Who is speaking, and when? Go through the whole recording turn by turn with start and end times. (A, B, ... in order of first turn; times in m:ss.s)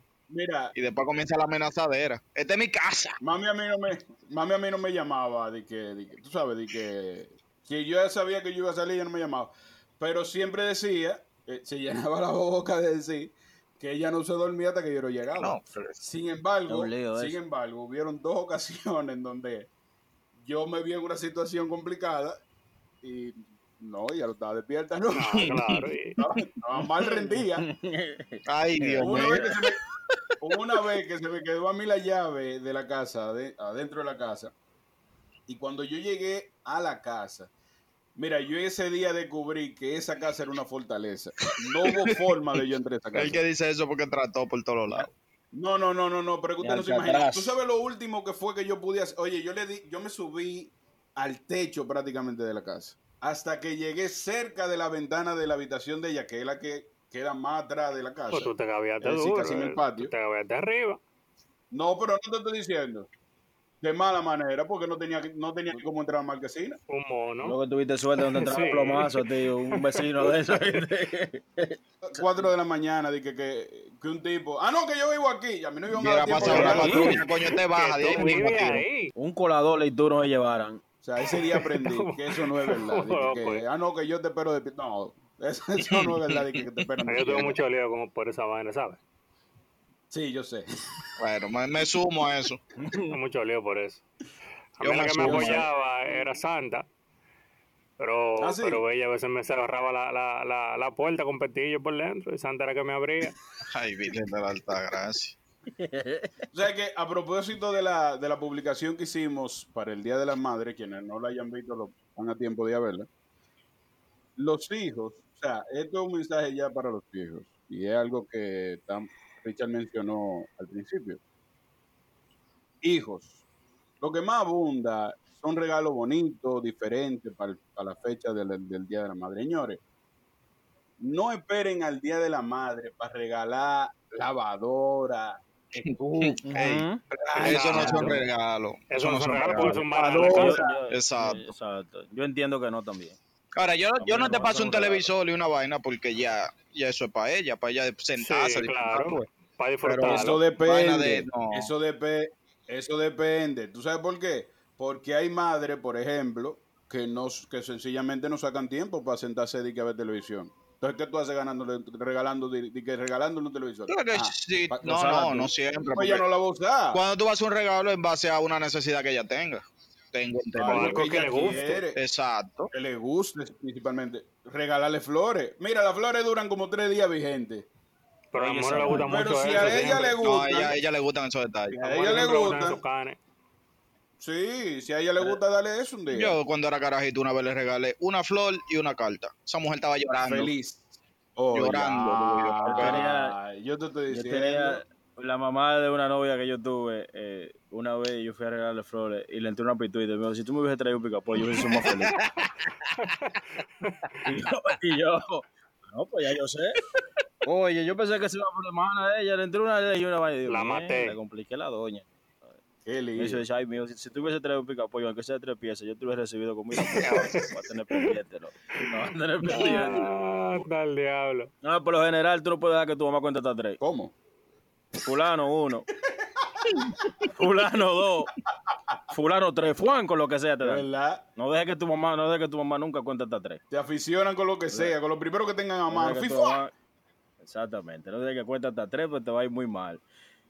0:00.3-0:00.7 A
0:00.8-0:03.2 B
0:03.2-0:19.7 A
0:15.4-0:16.0 B
0:16.7-0:17.4 C
0:20.4-0:22.4 A
0:23.0-0:25.5 A
0:25.1-0:26.2 D
0:25.4-0:25.9 B
0:26.2-0:27.7 A
0:27.0-0:29.5 C
0:28.5-0:29.7 B
0:29.0-0:29.8 A
0:30.4-0:34.5 A
0:35.5-0:37.5 A
0:38.2-0:43.4 A
0:41.9-0:42.2 B
0:43.1-0:45.1 B
0:45.5-1:00.1 A
0:46.6-0:47.6 C
0:58.3-1:01.0 D
1:01.7-1:03.1 A
1:03.8-1:06.8 A
1:06.9-1:07.6 D
1:07.4-1:12.2 C
1:08.3-1:10.3 D
1:12.0-1:17.2 A
1:16.0-1:18.9 B
1:16.4-1:17.2 C
1:16.6-1:19.1 D
1:19.2-1:20.8 C
1:21.0-1:27.6 A
1:21.3-1:23.6 D
1:25.9-1:26.6 B
1:27.1-1:29.0 D
1:30.1-1:30.7 A
1:31.2-1:32.6 B
1:32.8-1:33.2 C
1:33.1-1:34.0 D
1:34.8-1:36.8 D
1:34.8-1:35.7 B
1:35.2-1:35.6 A
1:38.0-1:43.4 D
1:38.4-1:38.8 A
1:43.7-1:45.4 B
1:45.8-1:46.4 C
1:46.5-1:53.1 A
1:54.4-2:01.2 A
2:02.8-2:03.4 A
2:04.0-2:09.8 A
2:11.0-2:18.2 A
2:15.8-2:21.5 B
2:16.4-2:17.0 C
2:17.4-2:18.2 D
2:17.8-2:18.0 C
2:18.9-2:20.6 D
2:19.5-2:23.2 C
2:20.0-2:20.8 A
2:23.6-2:29.3 B
2:24.0-2:25.1 C
2:28.2-2:30.4 D
2:29.8-2:31.7 B
2:30.0-2:47.0 A
2:43.9-2:46.2 B
2:46.9-2:52.7 B
2:50.6-2:52.0 A
2:50.6-2:51.8 D
2:52.7-2:57.7 A
2:58.3-3:00.1 D
2:58.4-3:00.0 C
2:59.0-3:00.8 A
2:59.8-3:01.9 B
3:01.7-3:02.8 A
3:01.9-3:03.2 D
3:04.2-3:06.4 A
3:06.1-3:10.5 B
3:10.2-3:10.8 A
3:11.4-3:14.8 A
3:11.5-3:13.0 B
3:12.7-3:13.4 C
3:14.1-3:22.2 C
3:21.8-3:22.5 B
3:23.0-3:24.2 D
3:24.2-3:32.5 C
3:30.5-3:31.2 D
3:32.9-3:33.4 A
3:33.2-3:40.1 C
3:37.0-3:38.1 D
3:39.5-3:41.5 D
3:41.6-3:43.8 C
3:43.8-3:44.2 A
3:45.0-3:45.8 C
3:46.5-3:47.1 A
3:47.2-3:48.3 C
3:49.1-3:53.6 C
3:50.6-3:51.2 A
3:53.7-3:56.6 A
3:55.9-3:56.7 C
3:57.4-4:00.0 C